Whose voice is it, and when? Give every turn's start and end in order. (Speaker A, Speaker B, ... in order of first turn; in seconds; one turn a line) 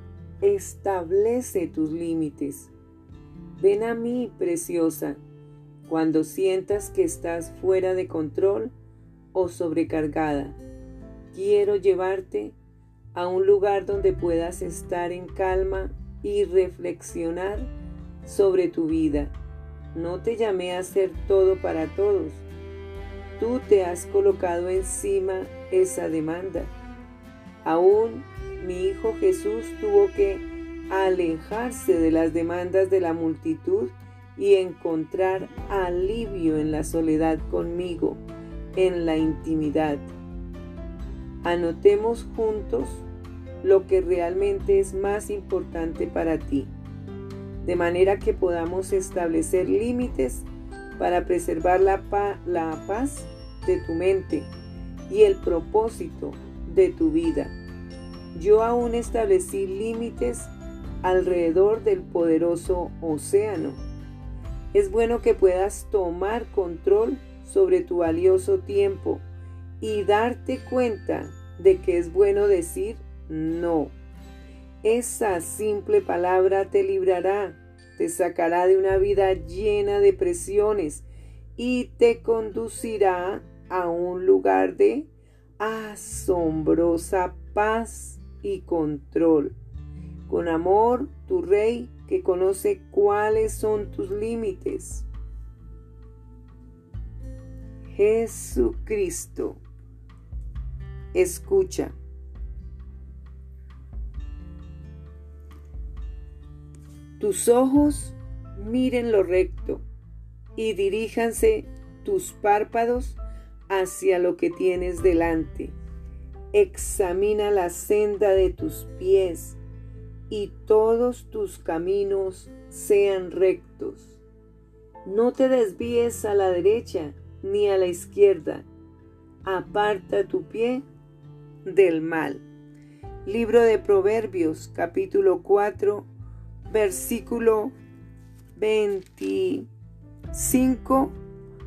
Speaker A: 0.4-2.7
Speaker A: 3.6-5.2
Speaker A: 5.9-8.7
Speaker A: 9.3-10.6
Speaker A: 11.3-12.6
Speaker A: 13.1-17.7
Speaker A: 18.2-19.3
Speaker A: 19.9-22.4
Speaker A: 23.4-26.7
Speaker A: 27.6-38.2
Speaker A: 38.7-40.1
Speaker A: 41.4-43.0
Speaker A: 43.6-46.7
Speaker A: 47.6-50.5
Speaker A: 51.0-54.5
Speaker A: 55.1-57.5
Speaker A: 58.3-60.5
Speaker A: 61.0-63.8
Speaker A: 64.7-69.2
Speaker A: 69.8-73.9
Speaker A: 74.8-81.0
Speaker A: 81.6-89.5
Speaker A: 90.3-95.0
Speaker A: 97.9-99.6
Speaker A: 101.1-101.9
Speaker A: 107.2-109.8
Speaker A: 110.5-115.7
Speaker A: 116.5-119.6
Speaker A: 120.3-124.2
Speaker A: 125.0-128.7
Speaker A: 129.4-130.8
Speaker A: 131.6-132.4
Speaker A: 133.2-136.1
Speaker A: 136.7-137.7
Speaker A: 138.5-139.7
Speaker A: 140.3-141.2